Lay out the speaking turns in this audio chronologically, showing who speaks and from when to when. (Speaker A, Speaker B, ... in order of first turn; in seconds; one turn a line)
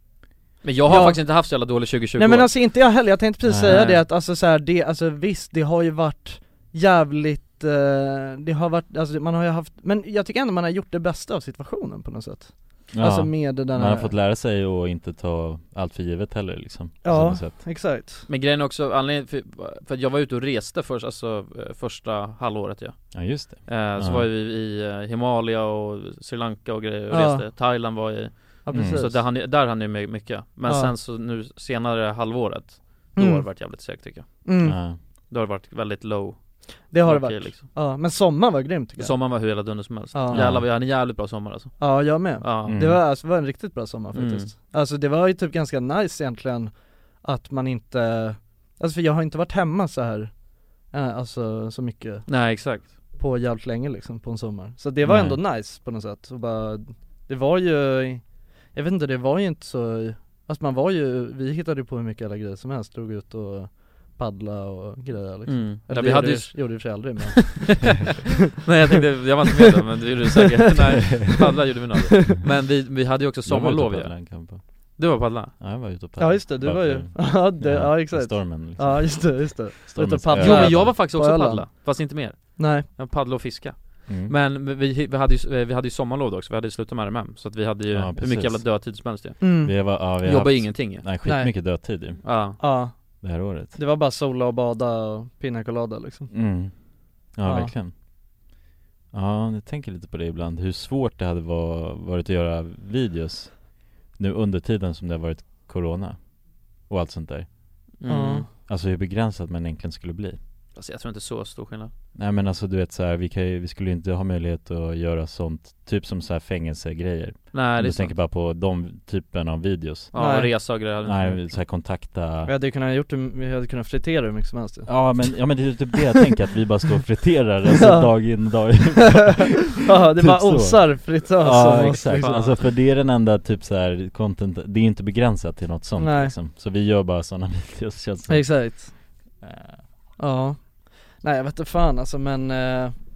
Speaker A: 0.6-2.6
Speaker B: 0.9-14.1
Speaker C: 3.4-3.9
Speaker A: 3.7-4.0
Speaker C: 12.9-17.6
Speaker B: 17.0-18.3
Speaker A: 18.3-34.6
Speaker C: 23.1-24.3
Speaker B: 27.1-27.4
Speaker B: 28.7-29.2
Speaker C: 28.7-29.2
Speaker B: 30.6-30.9
Speaker B: 33.2-33.8
Speaker B: 34.5-34.8
Speaker C: 34.6-35.0
Speaker A: 35.3-37.8
Speaker B: 36.9-39.5
Speaker A: 39.0-42.8
Speaker B: 40.1-40.5
Speaker C: 40.3-40.7
Speaker B: 41.8-67.9
Speaker C: 42.6-43.0
Speaker A: 44.1-44.5
Speaker A: 52.3-52.9
Speaker C: 55.0-55.4
Speaker A: 65.5-67.7
Speaker A: 68.5-75.5
Speaker B: 70.9-71.2
Speaker C: 73.5-74.7
Speaker C: 75.6-81.0
Speaker B: 76.2-82.0
Speaker A: 80.3-91.2
Speaker B: 82.6-82.9
Speaker C: 84.1-84.4
Speaker C: 87.9-92.5
Speaker B: 89.4-89.7
Speaker B: 91.2-91.8
Speaker A: 92.2-92.6
Speaker B: 92.6-96.3
Speaker C: 93.2-93.8
Speaker C: 96.3-97.9
Speaker B: 97.4-97.7
Speaker C: 99.1-107.5
Speaker A: 108.0-108.5
Speaker B: 108.1-108.5
Speaker C: 108.7-110.4
Speaker A: 110.8-111.9
Speaker C: 112.2-120.1
Speaker A: 117.5-118.2
Speaker A: 120.1-121.5
Speaker B: 120.2-120.5
Speaker C: 121.0-122.5
Speaker B: 122.5-125.7
Speaker C: 124.9-138.8
Speaker B: 127.8-128.1
Speaker B: 129.8-132.4
Speaker A: 132.1-132.6
Speaker B: 136.0-136.3
Speaker B: 138.3-139.0
Speaker B: 140.2-142.9